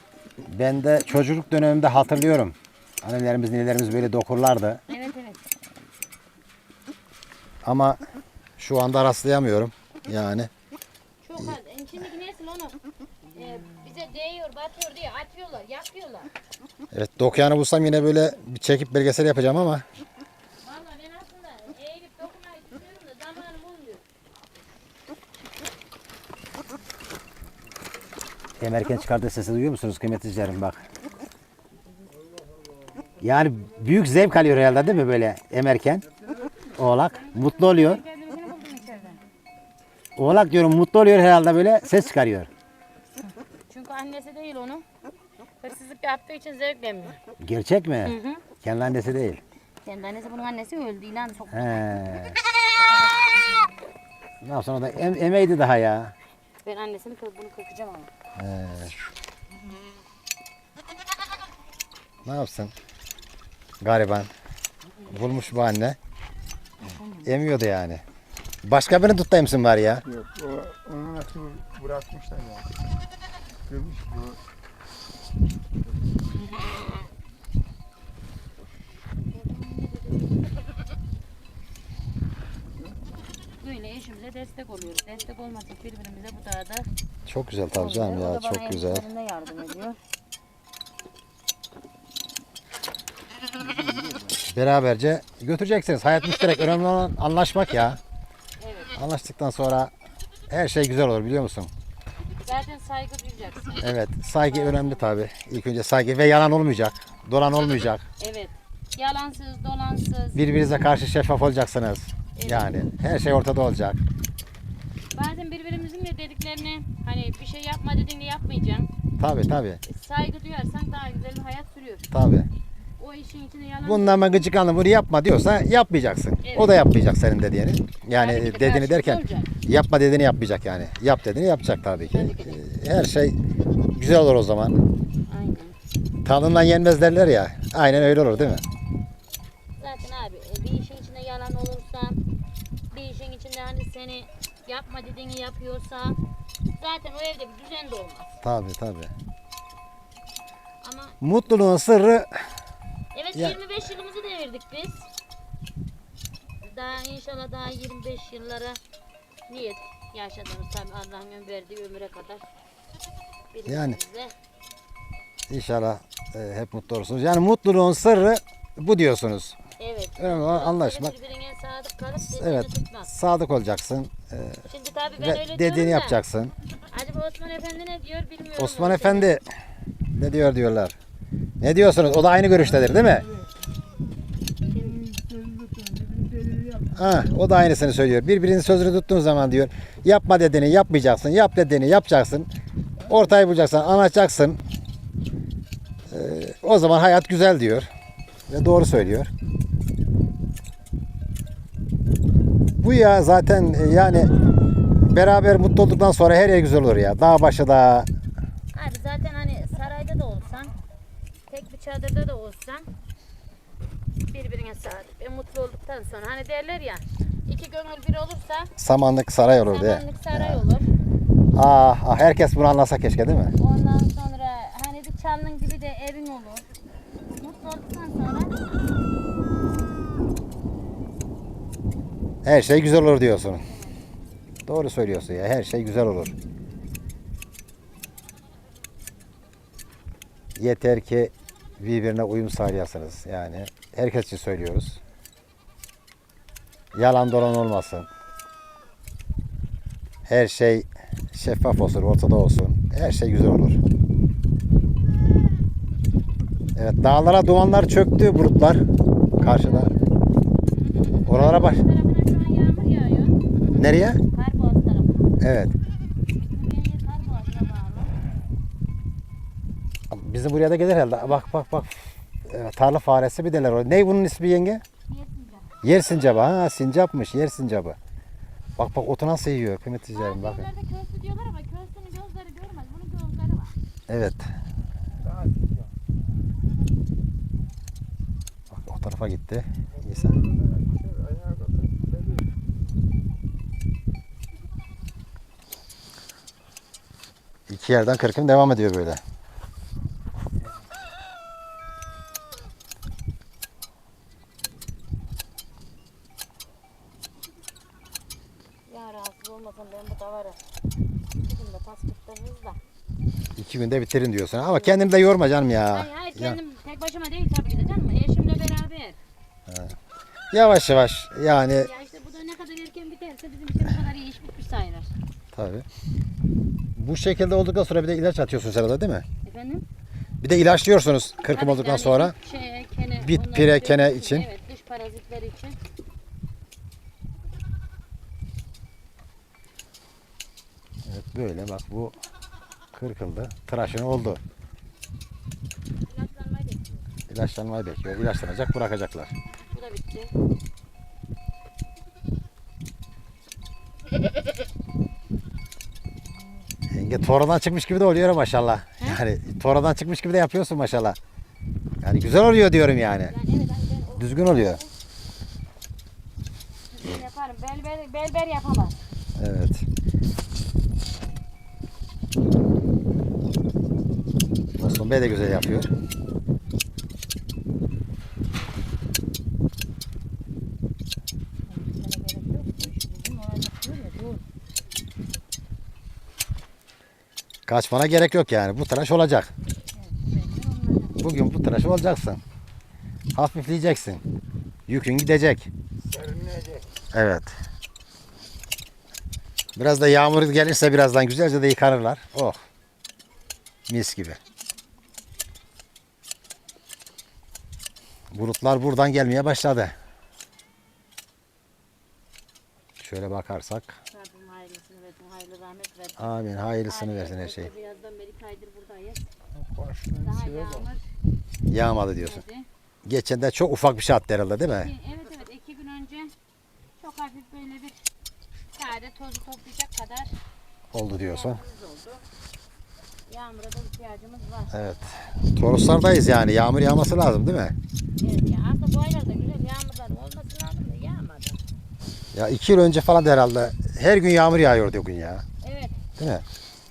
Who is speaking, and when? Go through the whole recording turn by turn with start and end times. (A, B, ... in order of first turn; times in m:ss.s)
0:00.4-0:04.8 A
0:04.9-0:05.5 B
0:07.6-0:08.0 A
0:08.6-0:10.5 A
0:11.2-0:12.8 B
0:13.3-0:16.3 B
0:16.9-0:19.8 A
0:20.6-0:24.0 B
0:28.6-0:30.8 A
0:33.2-0:36.1 A
0:36.8-0:38.0 A
0:37.1-0:39.2 B
0:40.2-0:42.5 A
0:43.7-0:44.8 B
0:45.6-0:47.2 B
0:47.4-0:49.4 A
0:48.0-0:48.4 B
0:49.8-0:51.7 B
0:51.5-0:52.4 A
0:54.4-0:56.2 A
0:56.6-0:58.1 B
0:58.4-0:58.9 A
1:02.2-1:02.7 A
1:03.8-1:04.3 A
1:05.1-1:06.0 A
1:06.8-1:07.3 B
1:07.2-1:08.0 A
1:08.6-1:10.0 A
1:10.0-1:12.7 C
1:13.7-1:14.4 C
1:19.3-1:20.2 B
1:23.6-1:26.9 B
1:27.3-1:29.1 A
1:27.7-1:30.0 B
1:34.5-1:38.0 A
1:38.6-1:38.9 B
1:39.0-1:39.9 A
1:40.5-1:41.7 A
1:42.4-1:43.8 B
1:43.8-1:48.1 A
1:44.4-1:45.1 B
1:48.2-1:50.5 B
1:50.4-1:54.0 A
1:52.4-1:52.8 B
1:55.1-1:58.9 B
1:59.2-1:59.8 A
1:59.8-2:02.1 B
2:02.1-2:02.5 A
2:03.0-2:04.5 B
2:03.8-2:13.4 A
2:06.4-2:06.8 B
2:08.1-2:09.5 B
2:12.1-2:12.6 B
2:13.9-2:14.8 A
2:15.3-2:15.8 B
2:16.2-2:18.6 A
2:18.0-2:18.5 B
2:19.8-2:22.2 B
2:22.9-2:26.2 B
2:26.8-2:28.4 B
2:28.4-2:29.1 A
2:30.8-2:31.2 B
2:31.2-2:32.4 A
2:33.1-2:35.1 B
2:36.6-2:38.8 B
2:39.5-2:42.5 B
2:43.5-2:44.3 B
2:43.7-2:44.0 A
2:45.5-2:49.6 A
2:49.8-2:53.1 B
2:50.2-2:51.2 A
2:52.2-2:54.6 A
2:54.7-2:56.2 B
2:55.2-2:56.5 A
2:56.9-2:59.3 B
2:58.6-2:59.4 A
3:00.1-3:01.0 A
3:01.6-3:03.3 A
3:04.7-3:06.9 C
3:06.9-3:12.5 A
3:13.1-3:14.6 A
3:16.1-3:17.9 A
3:18.5-3:19.3 A
3:22.8-3:24.3 A
3:25.1-3:28.1 A
3:28.7-3:30.7 B
3:31.5-3:32.9 B
3:34.3-3:38.7 B
3:38.8-3:40.6 A
3:39.6-3:40.9 B
3:41.5-3:43.5 A
3:43.6-3:46.7 B
3:47.3-3:48.6 B
3:52.4-3:53.6 A
3:54.7-3:56.3 A
4:00.6-4:05.0 A
4:06.9-4:08.1 A
4:10.3-4:13.8 A
4:16.8-4:18.8 A
4:19.4-4:19.9 A
4:19.4-4:20.2 B
4:21.1-4:23.4 B
4:21.2-4:21.8 A
4:23.8-4:24.2 A
4:24.3-4:25.4 B
4:25.4-4:25.7 A
4:26.3-4:28.2 B
4:30.1-4:34.8 A
4:35.1-4:35.8 B
4:35.8-4:38.0 A
4:38.8-4:40.7 A
4:40.1-4:43.8 B
4:44.1-4:44.5 A
4:45.2-4:45.9 C
4:48.7-4:50.4 A
4:49.9-4:52.5 C
4:57.7-4:59.2 A
5:08.9-5:10.6 B
5:11.4-5:12.8 B
5:13.6-5:16.6 A
5:14.7-5:15.0 B
5:15.9-5:19.2 B
5:19.7-5:20.0 A
5:20.5-5:21.9 A
5:21.7-5:25.1 B
5:25.5-5:25.9 A
5:27.0-5:29.2 A
5:29.4-5:29.9 B
5:30.4-5:32.4 A
5:31.5-5:35.8 B
5:33.2-5:34.5 A
5:41.1-5:42.2 A
5:42.9-5:44.4 A
5:46.0-5:47.0 B
5:47.3-5:49.3 A
5:49.7-5:50.3 B
5:56.9-6:01.2 A
6:02.0-6:03.3 A
6:03.2-6:04.9 B
6:04.2-6:04.8 A
6:06.9-6:09.0 B
6:09.4-6:09.9 A
6:14.8-6:15.9 A
6:21.7-6:24.4 B
6:27.7-6:29.5 A
6:29.9-6:31.2 B
6:31.2-6:32.4 A
6:33.3-6:34.2 A
6:34.9-6:35.7 A
6:36.0-6:36.9 C
6:37.1-6:37.5 A
6:39.8-6:42.6 A
6:43.9-6:44.4 A
6:48.3-6:49.9 A
6:53.0-6:54.0 A
6:54.1-6:56.3 B
6:56.2-6:57.7 A
6:56.9-6:59.3 B
6:59.6-7:00.9 C
7:00.2-7:01.0 B
7:01.7-7:02.4 A
7:02.2-7:02.7 B
7:03.0-7:04.9 A
7:04.8-7:06.3 B
7:07.0-7:08.0 B
7:08.7-7:10.3 B
7:10.9-7:11.6 A
7:11.2-7:12.2 B
7:13.3-7:14.8 B
7:14.7-7:17.8 A
7:18.2-7:21.6 B
7:22.3-7:25.4 A
7:25.6-7:26.0 B
7:26.2-7:26.5 A